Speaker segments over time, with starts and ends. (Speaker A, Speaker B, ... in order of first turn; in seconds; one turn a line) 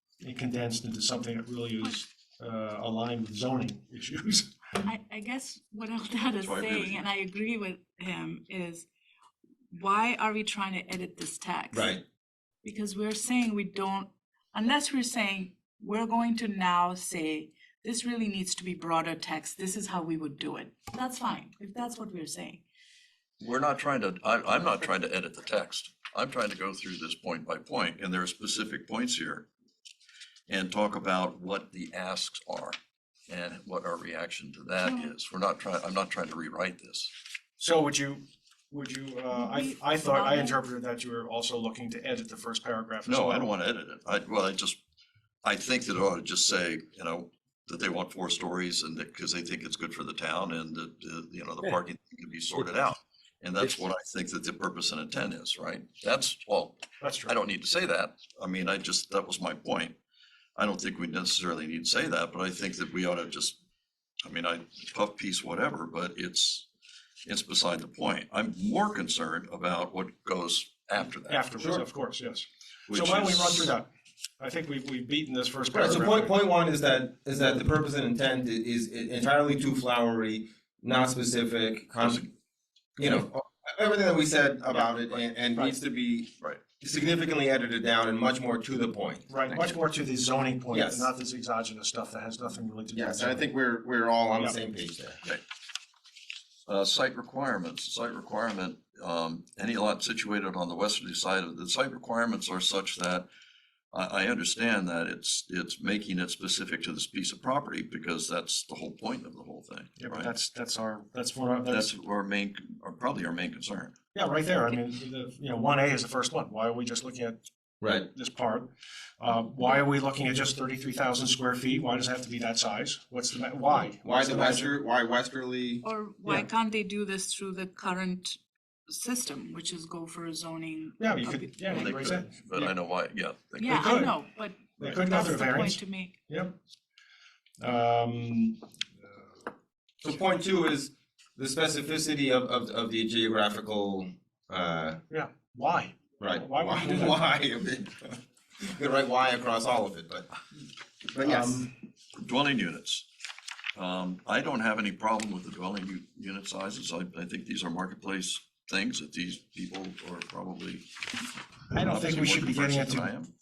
Speaker A: 0.2-4.5
Speaker B: 4.8-8.9
Speaker C: 6.4-7.0
Speaker B: 9.7-11.9
Speaker D: 11.7-12.0
Speaker B: 12.6-22.6
Speaker C: 23.4-29.5
Speaker C: 30.5-37.1
Speaker B: 34.8-35.1
Speaker A: 37.6-43.5
Speaker B: 39.3-40.5
Speaker C: 43.0-44.8
Speaker C: 45.4-60.0
Speaker A: 57.0-57.3
Speaker C: 60.5-63.6
Speaker C: 64.2-66.7
Speaker C: 67.2-71.4
Speaker A: 71.2-73.9
Speaker D: 71.6-71.8
Speaker C: 72.9-73.7
Speaker A: 74.4-76.3
Speaker D: 75.7-82.3
Speaker D: 83.0-89.3
Speaker A: 89.3-93.5
Speaker D: 90.7-91.1
Speaker D: 92.9-95.2
Speaker C: 96.7-103.3
Speaker C: 103.9-110.3
Speaker A: 110.0-111.9
Speaker C: 111.7-113.9
Speaker A: 114.1-117.4
Speaker D: 117.8-118.1
Speaker A: 118.1-124.7
Speaker D: 124.0-125.8
Speaker B: 125.8-128.4
Speaker B: 128.9-132.1
Speaker A: 131.0-132.7
Speaker C: 131.7-133.9
Speaker B: 133.6-136.1
Speaker A: 133.7-134.1
Speaker A: 134.8-136.5
Speaker A: 137.6-139.2
Speaker D: 140.0-145.0
Speaker A: 145.1-147.2
Speaker D: 146.2-150.3
Speaker D: 151.1-151.7
Speaker A: 151.2-151.7
Speaker C: 152.2-153.1
Speaker C: 153.7-160.9
Speaker A: 161.7-163.1
Speaker C: 161.8-163.3